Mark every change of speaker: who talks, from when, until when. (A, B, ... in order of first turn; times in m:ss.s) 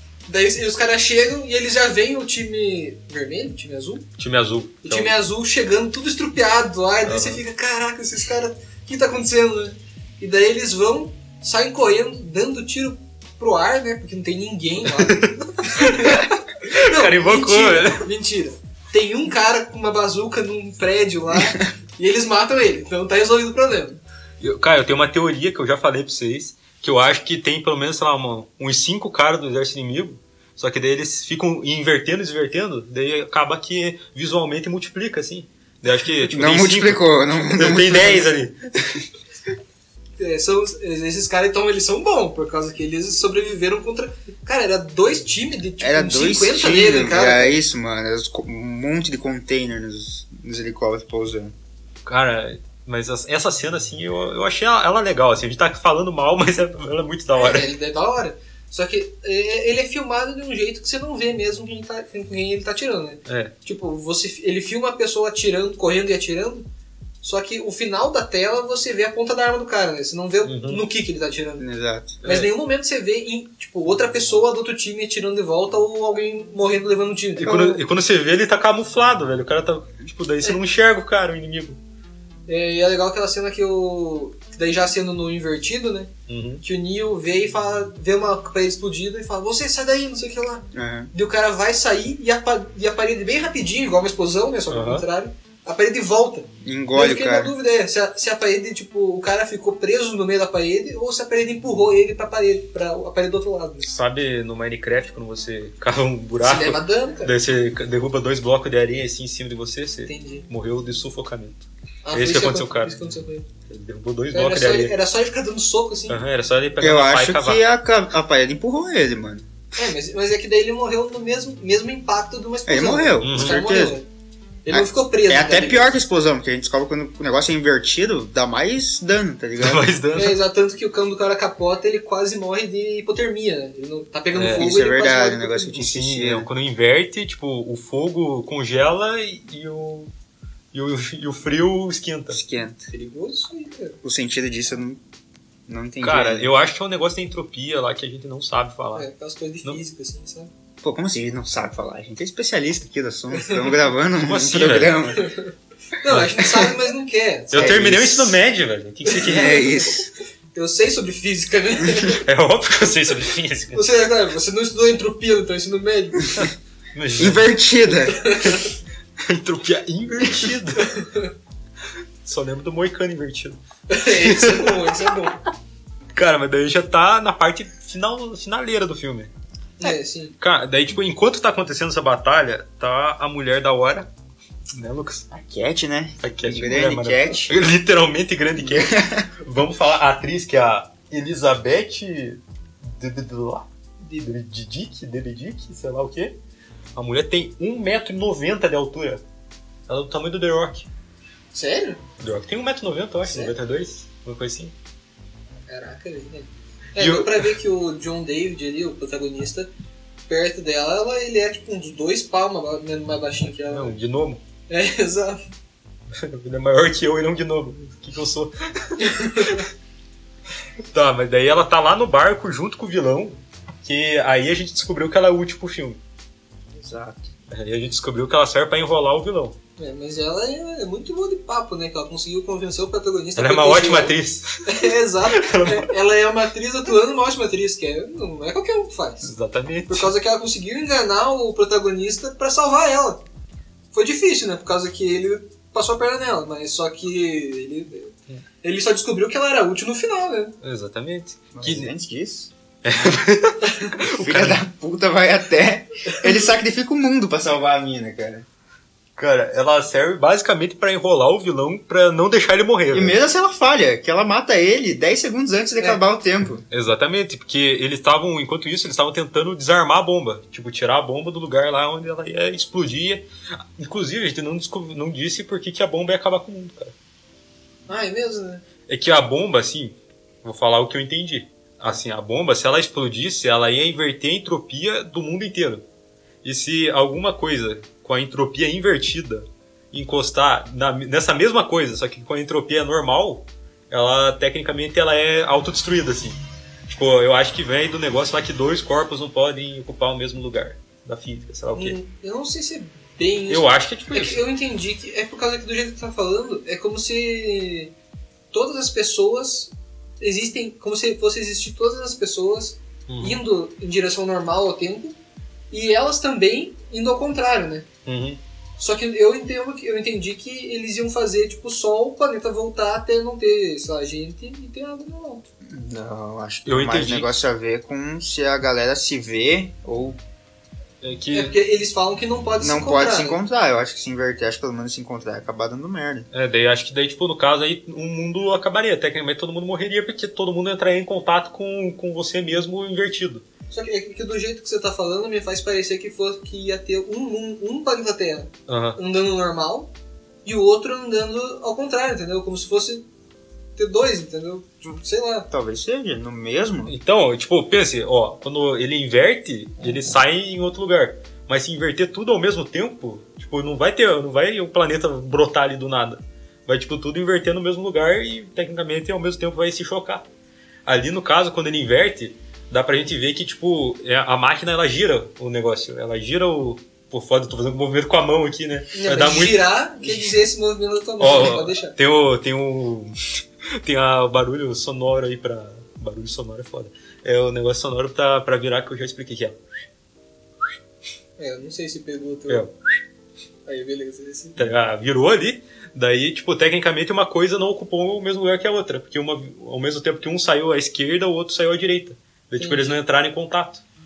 0:00.3-0:04.0 A
0:04.2-0:05.2 B
0:04.8-0:24.0 A
0:07.0-0:07.4 B
0:14.8-0:18.1 B
0:24.4-0:39.0 B
0:36.2-0:38.3 C
0:40.2-0:47.6 A
0:45.8-0:51.5 C
0:52.0-0:57.7 B
0:57.4-1:06.6 A
1:03.2-1:03.5 B
1:07.2-1:11.6 A
1:10.4-1:10.8 B
1:11.6-1:12.2 C
1:12.2-1:17.8 A
1:12.2-1:12.5 B
1:17.4-1:21.8 B
1:22.5-1:26.1 A
1:26.3-1:26.6 B
1:26.6-1:43.9 A
1:30.7-1:31.1 C
1:34.7-1:35.0 B
1:36.6-1:37.5 C
1:43.8-1:53.0 B
1:46.4-1:47.3 A
1:50.0-1:50.4 A
1:52.0-1:53.4 A
1:53.7-1:54.9 B
1:54.3-1:56.2 A
1:56.1-1:57.6 B
1:56.8-1:59.5 C
1:59.8-2:04.1 A
2:02.7-2:04.0 C
2:03.2-2:03.6 B
2:04.6-2:05.9 A
2:04.7-2:09.9 C
2:09.6-2:10.4 B
2:10.1-2:15.8 A
2:14.3-2:14.7 B
2:14.6-2:16.5 C
2:15.7-2:20.1 B
2:20.7-2:22.4 B
2:22.3-2:22.9 C
2:22.9-2:24.0 A
2:24.0-2:25.0 C
2:25.7-2:26.5 C
2:26.0-2:29.1 B
2:28.9-2:30.5 A
2:30.8-2:35.3 C
2:33.3-2:33.8 A
2:34.2-2:35.0 B
2:35.1-2:37.8 A
2:36.1-2:36.4 B
2:37.5-2:39.7 B
2:37.5-2:38.4 C
2:39.1-2:39.8 A
2:39.2-2:40.1 C
2:40.5-2:42.2 A
2:42.2-2:43.8 B
2:43.7-2:46.5 A
2:46.4-2:47.4 B
2:47.2-2:48.2 C
2:48.1-2:48.6 A
2:48.4-2:48.7 B
2:49.2-2:50.9 B
2:50.8-2:51.3 A
2:52.2-2:54.9 B
2:53.9-2:55.4 A
2:56.1-2:59.3 B
2:59.8-3:00.3 A
3:00.4-3:04.1 B
3:04.7-3:05.3 B
3:05.3-3:07.5 C
3:06.2-3:13.7 B
3:08.6-3:09.3 C
3:14.0-3:14.3 A
3:14.2-3:16.4 B
3:17.0-3:19.2 B
3:19.9-3:20.9 B
3:21.5-3:22.0 A
3:22.2-3:24.7 B
3:23.2-3:23.5 A
3:25.7-3:29.7 A
3:27.0-3:27.5 B
3:30.3-3:33.9 A
3:33.7-3:34.4 B
3:34.7-3:35.4 A
3:36.1-3:39.6 B
3:39.0-3:39.6 A
3:40.9-3:46.0 B
3:46.8-3:47.2 C
3:47.5-3:49.6 B
3:49.8-3:59.3 A
3:53.4-3:55.9 B
3:59.2-4:00.1 B
3:59.9-4:03.2 A
4:03.9-4:10.5 A
4:10.6-4:11.9 B
4:11.5-4:12.5 C
4:12.8-4:14.6 B
4:13.6-4:13.9 A
4:14.0-4:18.5 C
4:19.2-4:23.2 B
4:22.9-4:26.6 C
4:26.7-4:33.2 B
4:33.8-4:36.9 B
4:37.9-4:38.6 A
4:38.9-4:45.8 B
4:46.4-5:02.0 B
5:01.7-5:07.9 A
5:03.5-5:04.4 B
5:08.5-5:15.2 A
5:13.1-5:13.4 B
5:15.7-5:17.9 A
5:18.0-5:18.4 B
5:18.8-5:25.4 A
5:25.7-5:30.2 C
5:26.6-5:27.3 B
5:31.0-5:31.5 B
5:31.3-5:33.4 A
5:32.6-5:36.3 C
5:36.3-5:43.4 B
5:43.7-5:49.9 A
5:48.7-5:49.0 B
5:50.4-5:53.0 A
5:53.8-5:55.5 A
5:55.5-5:56.9 C
5:56.9-6:10.2 B
6:10.8-6:19.6 B
6:18.9-6:21.9 A
6:21.2-6:23.2 B
6:23.8-6:29.6 B
6:31.4-6:32.6 A
6:33.6-6:34.6 A
6:34.6-6:43.8 B
6:42.6-6:43.0 A